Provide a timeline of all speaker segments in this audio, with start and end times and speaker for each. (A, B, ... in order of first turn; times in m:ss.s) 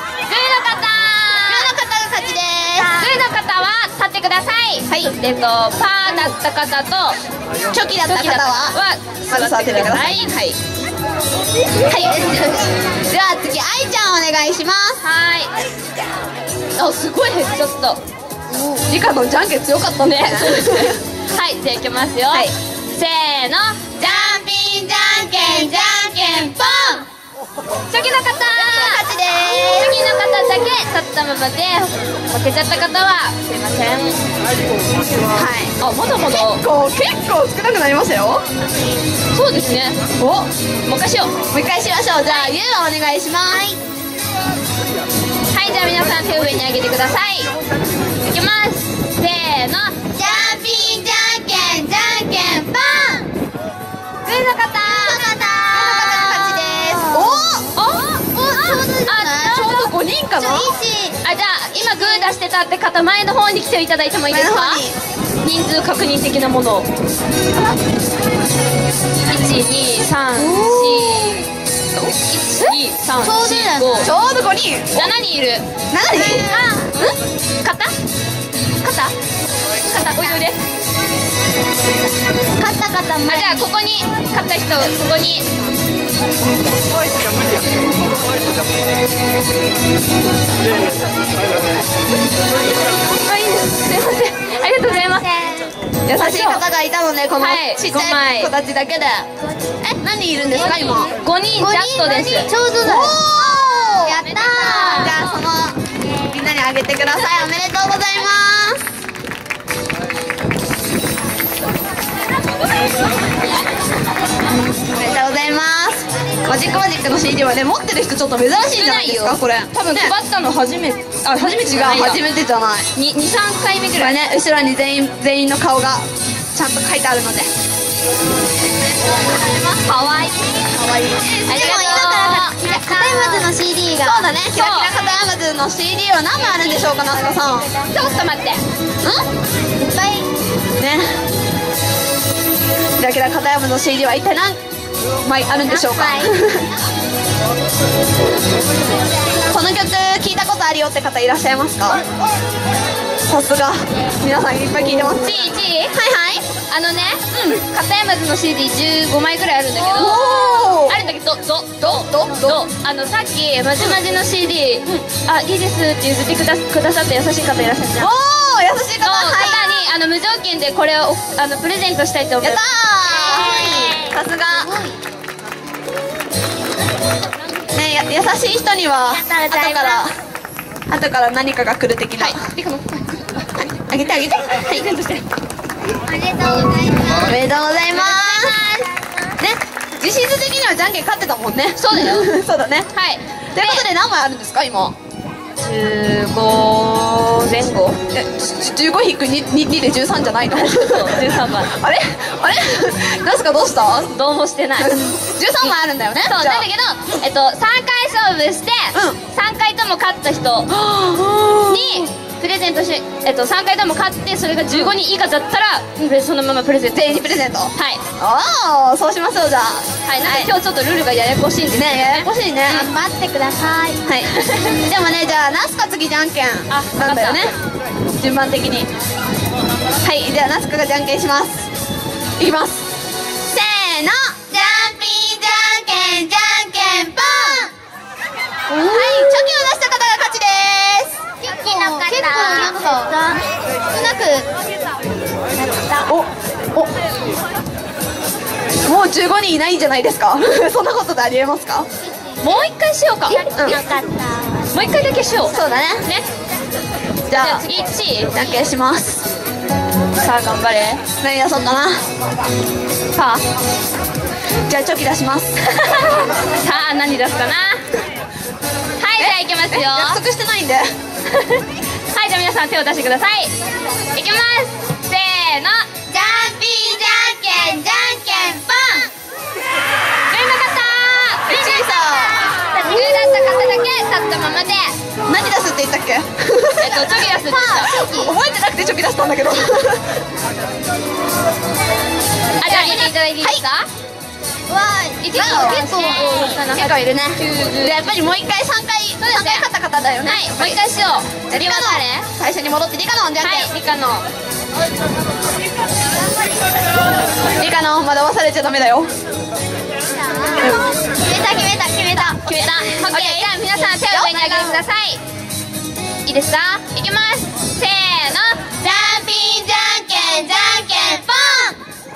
0:00.3-0:01.7 A
0:01.5-0:03.2 B
0:02.8-0:07.2 A
0:07.7-0:08.7 B
0:08.0-0:10.6 A
0:09.3-0:10.5 B
0:11.9-0:12.5 B
0:13.1-0:15.0 B
0:15.0-0:15.5 A
0:16.8-0:18.0 A
0:18.7-0:21.0 B
0:20.0-0:23.8 A
0:24.0-0:27.0 C
0:27.9-0:29.0 A
0:28.6-0:29.9 B
0:29.6-0:34.2 A
0:35.3-0:38.4 B
0:35.8-0:36.6 A
0:39.3-0:40.2 A
0:40.8-0:41.3 A
0:41.5-0:43.6 B
0:42.3-0:42.5 A
0:43.5-0:43.8 C
0:45.5-0:47.5 A
0:48.2-0:49.9 A
0:50.1-0:53.3 C
0:54.2-0:55.2 A
0:55.0-0:57.4 C
0:55.7-0:57.7 B
0:57.7-0:59.9 A
0:58.4-0:59.6 C
0:59.4-1:00.7 B
1:00.4-1:01.2 C
1:01.2-1:04.8 A
1:04.3-1:05.0 B
1:05.4-1:06.9 A
1:09.3-1:14.1 A
1:10.4-1:11.4 B
1:13.2-1:14.0 C
1:14.0-1:15.1 B
1:14.9-1:15.6 A
1:15.9-1:17.1 B
1:16.5-1:16.9 A
1:17.6-1:17.9 A
1:18.8-1:19.1 A
1:19.9-1:20.6 A
1:22.6-1:23.7 C
1:23.3-1:25.5 A
1:33.1-1:35.4 A
1:35.2-1:35.7 C
1:36.0-1:39.3 B
1:36.2-1:36.6 A
1:37.4-1:38.5 A
1:39.8-1:41.1 B
1:40.6-1:42.5 A
1:41.6-1:43.2 C
1:42.8-1:48.8 B
1:44.0-1:45.1 C
1:44.2-1:45.2 A
1:54.9-2:00.1 B
1:58.8-1:59.4 A
1:59.9-2:02.2 A
2:01.3-2:02.9 B
2:02.9-2:04.2 A
2:04.0-2:07.5 B
2:09.3-2:10.6 A
2:10.7-2:17.7 B
2:11.5-2:12.5 A
2:11.6-2:14.3 C
2:14.5-2:14.9 A
2:17.9-2:18.6 A
2:19.8-2:20.3 C
2:20.8-2:21.2 B
2:23.0-2:24.6 B
2:25.2-2:26.7 B
2:25.7-2:26.3 C
2:29.5-2:32.0 B
2:33.3-2:36.4 B
2:35.0-2:36.0 A
2:36.7-2:48.1 A
2:39.8-2:41.0 B
2:41.8-2:42.6 B
2:48.0-2:49.9 B
2:49.0-2:52.7 A
2:52.4-2:54.8 B
2:53.1-2:55.0 C
2:57.7-3:00.1 B
2:59.1-3:00.0 C
3:00.9-3:02.5 B
3:02.2-3:03.2 A
3:03.6-3:05.0 B
3:04.7-3:05.2 A
3:06.0-3:07.4 C
3:07.2-3:08.6 B
3:07.9-3:08.8 A
3:09.4-3:12.9 B
3:11.8-3:12.3 A
3:12.9-3:13.8 A
3:13.5-3:15.0 B
3:15.6-3:18.0 A
3:18.1-3:24.1 B
3:20.5-3:21.7 A
3:24.1-3:25.0 A
3:24.8-3:26.6 B
3:26.3-3:30.7 A
3:30.7-3:32.1 B
3:31.7-3:38.0 A
3:36.9-3:40.5 B
3:40.1-3:42.3 A
3:41.7-3:42.9 B
3:42.7-3:44.0 C
3:44.0-3:47.5 B
3:46.7-3:47.4 A
3:48.2-3:48.9 B
3:50.0-3:51.7 B
3:52.4-3:52.8 B
3:53.5-3:54.5 B
3:54.5-3:57.7 C
3:55.9-3:57.6 B
3:58.7-4:01.2 B
4:01.4-4:03.4 C
4:02.0-4:02.8 B
4:04.0-4:04.4 B
4:06.0-4:06.9 B
4:08.8-4:11.9 B
4:12.4-4:13.5 A
4:13.4-4:13.9 B
4:13.6-4:14.6 C
4:14.7-4:16.2 A
4:15.5-4:16.1 B
4:17.3-4:17.6 B
4:17.3-4:18.4 A
4:18.3-4:19.2 B
4:20.2-4:21.0 A
4:21.2-4:22.0 B
4:23.1-4:23.4 A
4:24.7-4:25.6 B
4:25.8-4:27.8 A
4:29.0-4:30.2 A
4:29.2-4:30.9 B
4:31.3-4:33.5 A
4:34.1-4:35.9 A
4:36.1-4:39.1 C
4:40.3-4:41.8 A
4:41.5-4:42.5 B
4:42.7-4:43.2 C
4:42.8-4:45.0 A
4:45.3-4:50.1 B
4:46.8-4:48.0 A
4:47.3-4:48.3 C
4:52.6-4:53.9 A
4:52.6-4:53.6 B
4:54.7-4:55.3 C
4:55.2-4:58.1 A
4:55.3-5:00.8 B
4:59.3-4:59.6 A
5:00.2-5:02.3 A
5:01.5-5:03.7 B
5:03.4-5:04.2 A
5:07.6-5:09.1 B
5:10.6-5:10.9 B
5:11.2-5:12.3 C
5:11.6-5:14.8 B
5:12.4-5:15.2 A
5:16.2-5:18.6 A
5:18.8-5:21.8 C